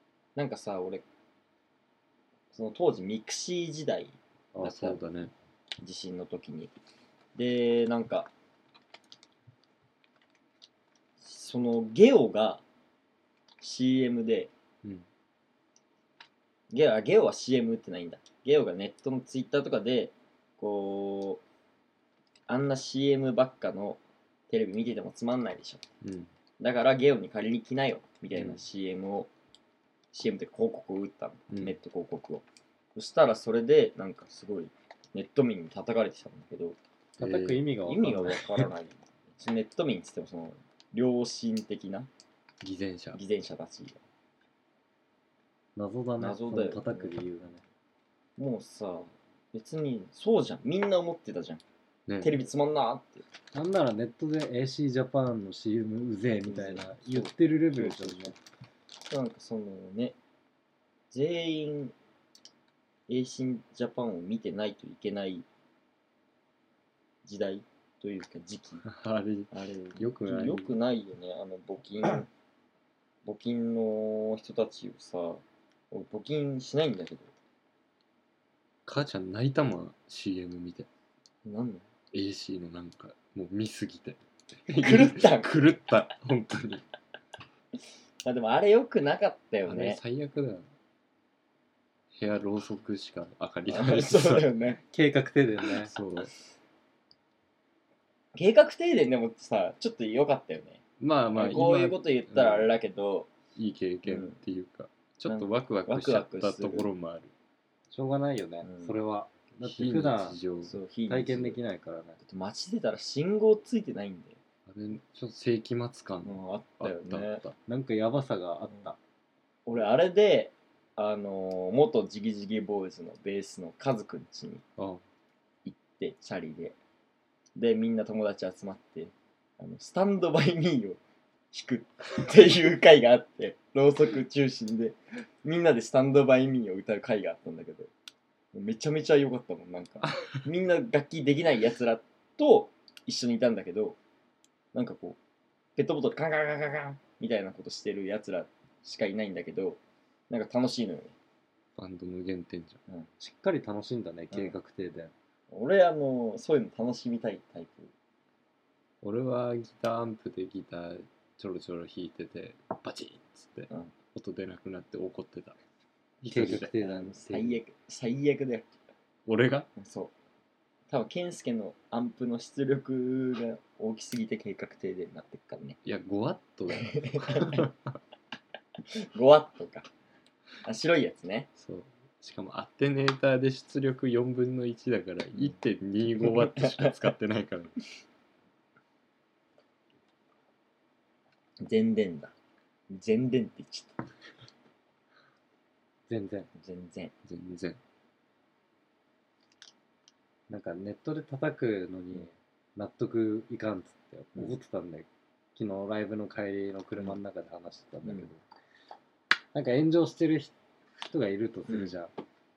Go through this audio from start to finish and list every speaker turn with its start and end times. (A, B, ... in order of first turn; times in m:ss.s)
0:00.4-0:01.0 A
0:02.5-0:05.0 A
0:04.5-0:05.3 B
0:05.8-0:06.7 A
0:07.3-0:08.3 A
0:11.2-0:12.6 A
0:13.6-0:14.5 A
0:16.7-0:21.4 A
0:22.5-0:25.8 A
0:26.0-0:26.3 B
0:26.6-0:29.3 A
0:28.3-0:28.6 B
0:30.1-0:36.8 A
0:31.5-0:31.8 B
0:37.2-0:38.6 C
0:37.2-0:37.6 B
0:37.8-0:42.1 A
0:42.6-0:43.2 B
0:43.1-0:44.0 A
0:45.8-0:47.6 C
0:46.2-0:47.1 A
0:48.4-0:51.6 A
0:52.1-0:52.4 B
0:52.2-0:53.2 A
0:53.5-0:58.4 C
0:56.4-0:58.3 A
0:59.1-1:00.2 A
1:01.1-1:01.9 A
1:03.1-1:05.4 A
1:07.2-1:08.8 A
1:08.8-1:10.7 B
1:09.5-1:12.3 A
1:13.2-1:17.3 A
1:18.8-1:20.9 B
1:21.4-1:21.8 A
1:22.1-1:26.8 B
1:24.8-1:25.6 A
1:28.2-1:30.0 A
1:29.7-1:30.7 B
1:32.1-1:34.5 B
1:33.7-1:34.8 A
1:34.9-1:35.9 C
1:35.8-1:36.3 B
1:38.3-1:40.8 A
1:41.0-1:42.7 B
1:41.3-1:43.3 A
1:43.5-1:47.3 B
1:44.0-1:44.4 A
1:45.3-1:46.9 A
1:47.9-1:50.4 C
1:48.6-1:49.0 A
1:49.6-1:50.8 B
1:50.6-1:51.6 A
1:51.1-1:52.2 C
1:52.2-1:54.4 A
1:54.7-1:57.6 B
1:56.2-1:57.4 A
1:57.6-1:59.0 C
1:59.6-2:04.6 A
2:05.6-2:06.8 A
2:07.6-2:11.0 A
2:11.5-2:17.9 A
2:18.5-2:24.0 A
2:20.1-2:20.4 B
2:24.7-2:25.2 A
2:25.8-2:31.1 A
2:31.8-2:32.8 B
2:33.2-2:35.1 C
2:35.5-2:37.9 A
2:39.0-2:45.6 B
2:46.2-2:46.7 B
2:46.2-2:47.6 C
2:46.3-2:48.6 A
2:49.3-2:49.7 B
2:49.8-2:50.1 A
2:50.9-2:55.8 A
2:55.8-2:57.7 B
2:56.8-2:57.7 A
2:58.9-2:59.9 A
3:00.6-3:01.5 A
3:01.6-3:07.8 B
3:06.2-3:06.9 A
3:11.6-3:12.3 A
3:12.9-3:14.0 A
3:16.1-3:16.5 C
3:16.6-3:17.1 A
3:17.2-3:17.8 B
3:20.5-3:28.4 C
3:29.5-3:32.1 C